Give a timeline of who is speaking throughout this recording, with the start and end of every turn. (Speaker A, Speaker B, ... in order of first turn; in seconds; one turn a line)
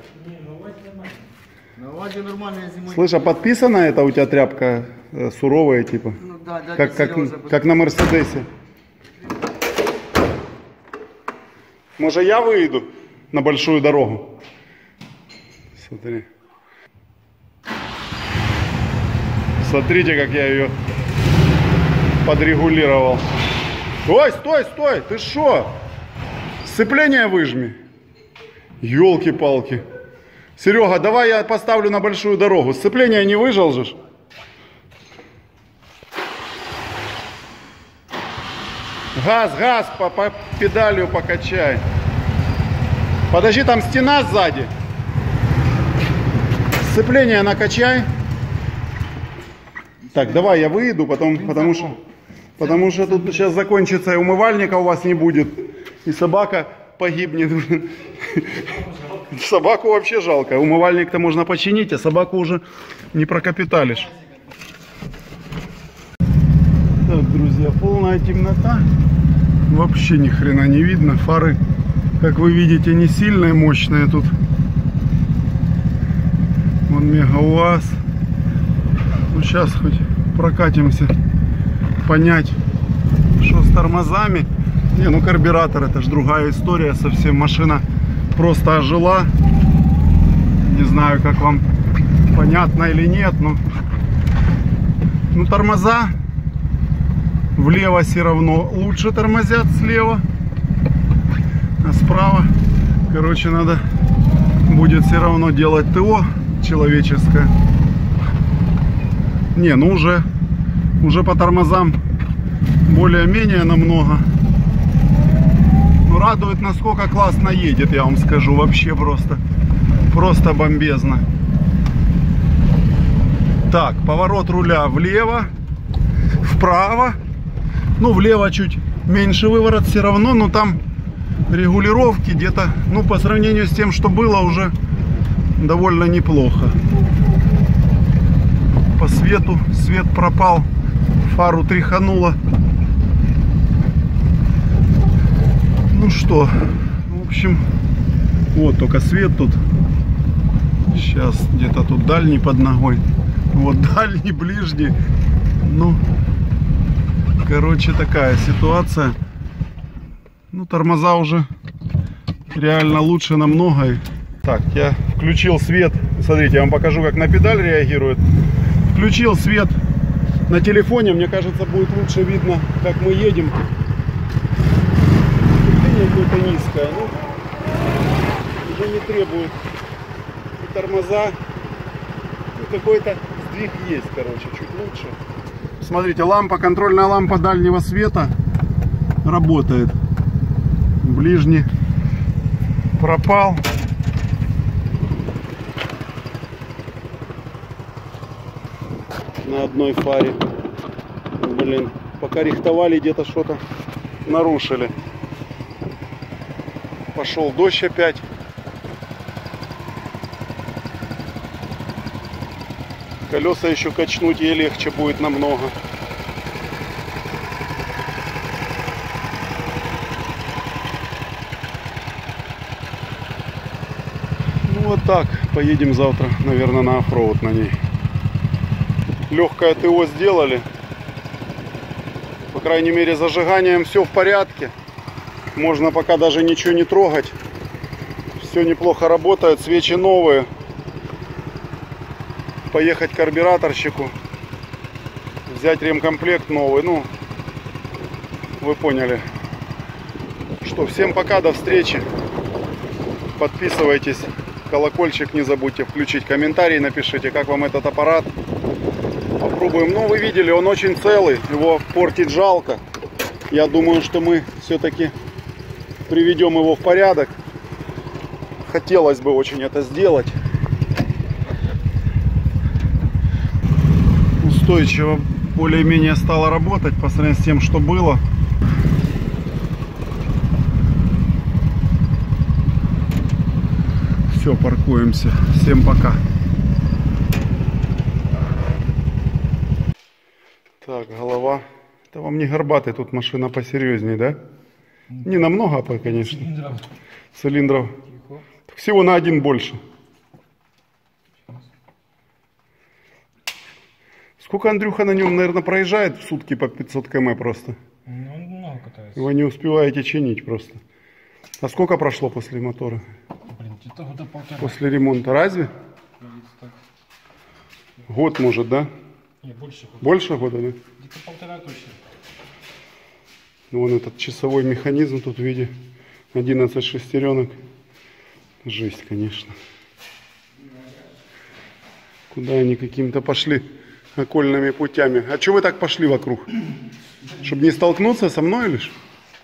Speaker A: 0.1-1.3
Speaker B: 1.7-3.4
Speaker C: 2.9-6.2
Speaker B: 6.2-7.7
Speaker C: 6.7-8.5
Speaker C: 12.0-14.3
Speaker C: 15.8-16.3
Speaker C: 19.6-20.7
Speaker C: 22.2-23.2
Speaker C: 24.1-25.8
Speaker C: 26.6-27.8
Speaker C: 28.8-29.8
Speaker C: 30.6-34.0
Speaker C: 39.1-41.8
Speaker C: 43.3-44.7
Speaker C: 46.8-48.1
Speaker B: 50.0-50.7
Speaker C: 50.1-52.0
Speaker B: 51.4-52.0
Speaker C: 52.6-58.8
Speaker C: 59.3-64.1
Speaker B: 63.8-64.5
Speaker C: 67.0-68.9
Speaker C: 69.7-71.6
Speaker C: 72.2-74.3
Speaker C: 76.9-78.0
Speaker C: 79.3-81.1
Speaker C: 82.0-82.6
Speaker C: 83.4-89.3
Speaker C: 90.6-91.6
Speaker C: 92.3-93.6
Speaker C: 95.3-96.1
Speaker C: 97.5-100.2
Speaker C: 101.8-102.5
Speaker C: 103.1-103.8
Speaker C: 104.6-107.5
Speaker C: 109.5-110.2
Speaker C: 111.0-112.0
Speaker C: 112.8-114.2
Speaker C: 116.0-119.4
Speaker C: 120.0-121.2
Speaker C: 123.7-125.5
Speaker C: 126.4-127.2
Speaker C: 128.0-130.8
Speaker C: 131.5-134.7
Speaker C: 135.6-136.8
Speaker C: 138.9-140.7
Speaker C: 141.2-142.4
Speaker C: 145.9-147.7
Speaker C: 148.5-149.6
Speaker C: 150.9-154.9
Speaker C: 155.6-156.0
Speaker C: 157.4-159.2
Speaker C: 160.5-161.5
Speaker C: 162.5-168.2
Speaker C: 168.9-169.8
Speaker C: 170.5-173.6
Speaker C: 175.6-177.2
Speaker C: 178.6-179.6
Speaker C: 180.6-181.4
Speaker C: 182.5-185.2
Speaker C: 185.8-188.3
Speaker C: 189.2-190.0
Speaker C: 191.0-191.7
Speaker C: 193.0-193.6
Speaker C: 199.4-200.4
Speaker C: 201.3-203.6
Speaker C: 204.2-204.9
Speaker C: 207.1-208.2
Speaker C: 213.3-215.8
Speaker C: 224.6-227.8
Speaker C: 229.3-230.7
Speaker C: 232.5-234.7
Speaker C: 235.5-237.3
Speaker C: 238.4-240.5
Speaker C: 242.7-244.1
Speaker C: 245.4-247.1
Speaker C: 248.6-249.2
Speaker C: 250.6-252.1
Speaker C: 253.3-258.3
Speaker C: 259.4-262.8
Speaker C: 263.5-265.1
Speaker C: 266.1-267.4
Speaker C: 268.6-270.4
Speaker C: 274.4-278.2
Speaker C: 284.3-286.2
Speaker C: 290.8-294.4
Speaker A: 295.1-295.4
Speaker C: 295.2-296.5
Speaker A: 296.0-296.9
Speaker C: 297.3-297.9
Speaker C: 298.7-299.8
Speaker C: 304.4-307.8
Speaker A: 308.1-309.2
Speaker C: 309.1-310.8
Speaker C: 311.6-313.1
Speaker A: 313.5-314.8
Speaker C: 314.6-315.7
Speaker A: 316.2-316.7
Speaker C: 318.1-318.9
Speaker A: 319.4-320.4
Speaker C: 320.0-320.8
Speaker A: 320.9-322.0
Speaker C: 323.7-325.7
Speaker C: 326.3-327.6
Speaker C: 328.6-329.6
Speaker C: 332.3-336.5
Speaker C: 337.4-338.9